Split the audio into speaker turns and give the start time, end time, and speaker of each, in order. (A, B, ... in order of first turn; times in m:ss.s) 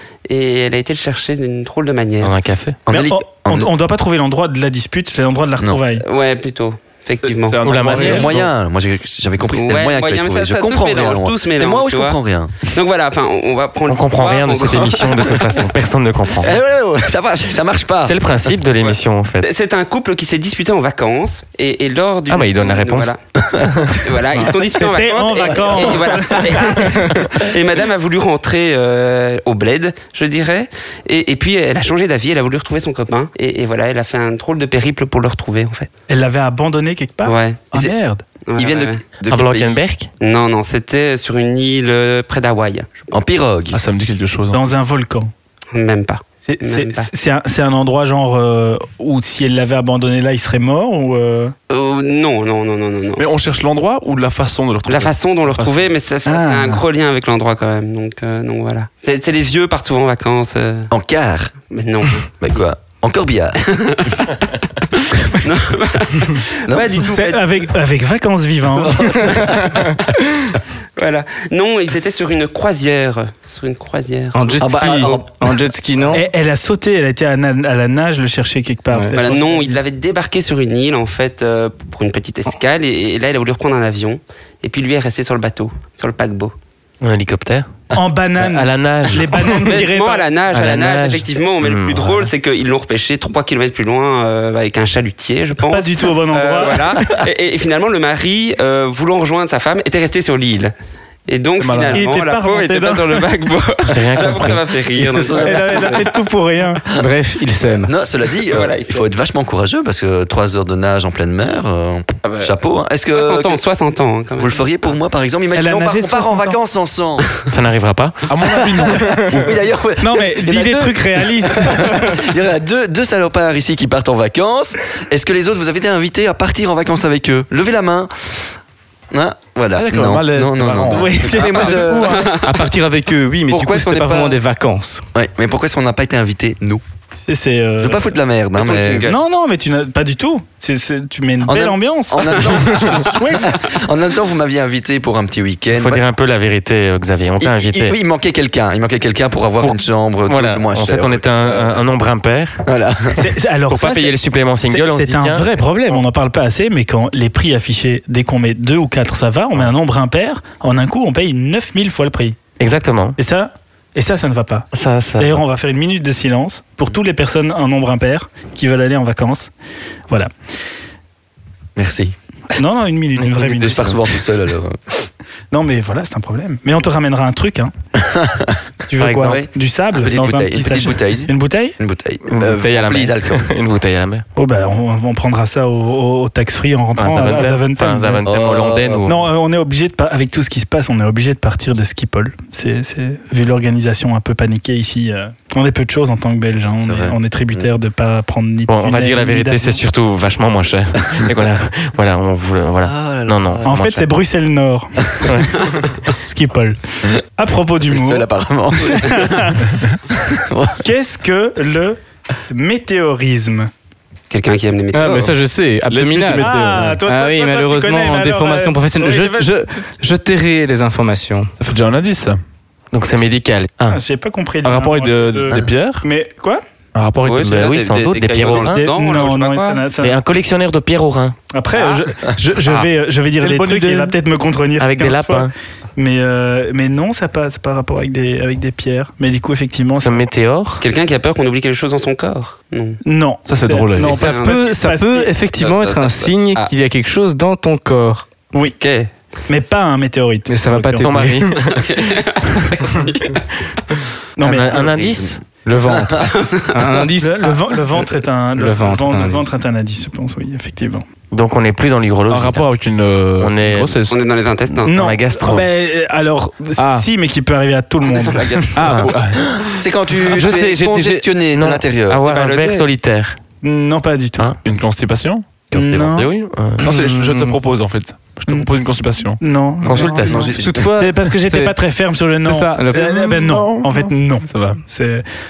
0:00.3-0:02.3 A
0:02.2-0:02.8 B
0:02.9-0:03.7 C
0:02.9-0:06.0 D
0:06.0-0:08.2 A
0:07.2-0:08.5 E
0:07.6-0:08.4 B
0:08.0-0:12.7 C
0:09.5-0:15.6 A
0:13.9-0:16.5 B
0:16.4-0:18.2 C
0:18.0-0:19.5 B
0:18.8-0:23.2 A
0:22.3-0:23.1 B
0:23.4-0:23.9 C
0:24.0-0:35.9 A
0:24.6-0:27.2 D
0:36.1-0:38.2 D
0:37.2-0:37.6 A
0:38.5-0:39.0 A
0:38.6-0:39.8 C
0:39.3-0:40.1 B
0:40.2-0:43.1 A
0:43.1-0:43.8 C
0:43.7-0:44.7 E
0:44.5-0:45.3 D
0:45.7-0:47.1 A
0:46.4-0:51.5 D
0:51.7-0:53.2 A
0:53.2-0:55.9 E
0:54.9-1:00.9 A
0:56.3-0:56.8 D
1:00.9-1:01.5 C
1:01.7-1:02.6 A
1:02.4-1:04.2 C
1:03.6-1:07.7 A
1:06.7-1:07.0 C
1:07.1-1:09.6 D
1:08.7-1:09.9 C
1:11.0-1:15.2 A
1:14.3-1:16.3 F
1:14.6-1:15.5 C
1:16.1-1:19.8 D
1:18.9-1:19.2 F
1:19.1-1:26.6 A
1:27.0-1:27.7 B
1:27.9-1:30.3 D
1:28.4-1:29.5 B
1:29.6-1:40.7 A
1:30.5-1:32.3 B
1:35.6-1:37.1 D
1:41.3-1:46.1 A
1:41.6-1:42.1 E
1:41.9-1:43.3 D
1:43.9-1:44.6 B
1:44.9-1:46.0 C
1:45.4-1:46.8 D
1:47.0-1:47.9 F
1:47.8-1:53.6 C
1:48.4-1:49.1 A
1:52.2-1:52.5 A
1:53.1-1:54.7 A
1:54.4-1:57.4 C
1:55.5-1:56.6 D
1:57.5-1:58.6 B
1:58.3-1:59.5 E
1:59.0-2:08.6 C
2:00.0-2:02.2 D
2:09.1-2:12.4 C
2:09.8-2:12.0 E
2:10.9-2:12.4 D
2:12.1-2:12.6 A
2:12.4-2:15.0 F
2:13.5-2:14.4 C
2:15.1-2:16.8 C
2:17.2-2:18.1 D
2:17.8-2:19.1 C
2:18.6-2:19.2 A
2:19.1-2:23.6 D
2:21.4-2:26.0 C
2:25.7-2:28.0 B
2:27.4-2:31.8 C
2:29.6-2:32.7 B
2:32.6-2:33.3 C
2:33.2-2:42.4 D
2:33.7-2:35.6 B
2:42.6-2:43.2 B
2:43.2-2:49.5 D
2:44.7-2:45.4 B
2:51.8-2:52.2 C
2:52.5-2:54.0 D
2:53.3-2:55.1 C
2:55.5-2:57.7 D
2:58.0-2:58.6 C
2:58.9-3:01.8 D
2:59.0-2:59.4 B
2:59.2-3:03.5 C
3:02.3-3:04.2 B
3:04.4-3:08.2 D
3:07.0-3:09.2 B
3:08.2-3:09.1 C
3:09.1-3:19.8 D
3:16.8-3:17.7 C
3:18.7-3:24.1 B
3:22.8-3:23.7 C
3:23.6-3:28.3 D
3:27.9-3:29.6 C
3:28.8-3:29.8 D
3:30.2-3:30.8 C
3:30.8-3:33.7 D
3:34.3-3:35.4 A
3:34.9-3:41.5 F
3:35.9-3:37.0 E
3:36.4-3:39.5 D
3:41.6-3:42.4 E
3:42.9-3:44.0 B
3:43.9-3:46.6 D
3:44.6-3:46.1 E
3:46.9-3:47.7 E
3:47.3-3:49.8 A
3:47.3-3:48.9 B
3:48.5-3:50.2 D
3:50.0-3:51.4 B
3:51.5-4:00.2 D
3:51.8-3:52.0 A
3:53.4-3:54.2 E
3:54.8-3:55.5 B
4:00.0-4:00.8 B
4:00.8-4:03.0 A
4:03.0-4:05.3 D
4:03.5-4:04.3 E
4:04.0-4:06.7 A
4:04.0-4:08.3 F
4:08.8-4:09.1 A
4:09.5-4:11.1 D
4:10.5-4:11.5 F
4:11.0-4:12.2 B
4:11.6-4:13.4 A
4:14.4-4:14.9 D
4:14.4-4:15.4 B
4:14.7-4:15.4 C
4:15.6-4:18.0 F
4:15.9-4:16.3 C
4:16.2-4:17.0 A
4:17.2-4:21.1 D
4:18.6-4:19.5 F
4:21.3-4:22.7 B
4:22.3-4:24.2 E
4:23.4-4:24.0 B
4:24.1-4:25.0 A
4:24.8-4:25.7 B
4:24.8-4:29.1 D
4:26.8-4:27.1 E
4:28.1-4:29.1 A
4:28.8-4:29.5 E
4:29.6-4:32.2 C
4:30.2-4:33.4 B
4:32.3-4:32.9 A
4:33.6-4:34.5 D
4:34.6-4:35.4 E
4:35.7-4:36.1 C
4:35.7-4:36.3 D
4:35.8-4:36.9 B
4:36.8-4:39.4 E
4:36.9-4:37.6 F
4:39.4-4:45.2 D
4:39.8-4:40.5 B
4:40.0-4:41.2 F
4:40.2-4:40.9 C
4:41.3-4:41.7 E
4:42.4-4:44.8 E
4:42.8-4:43.1 F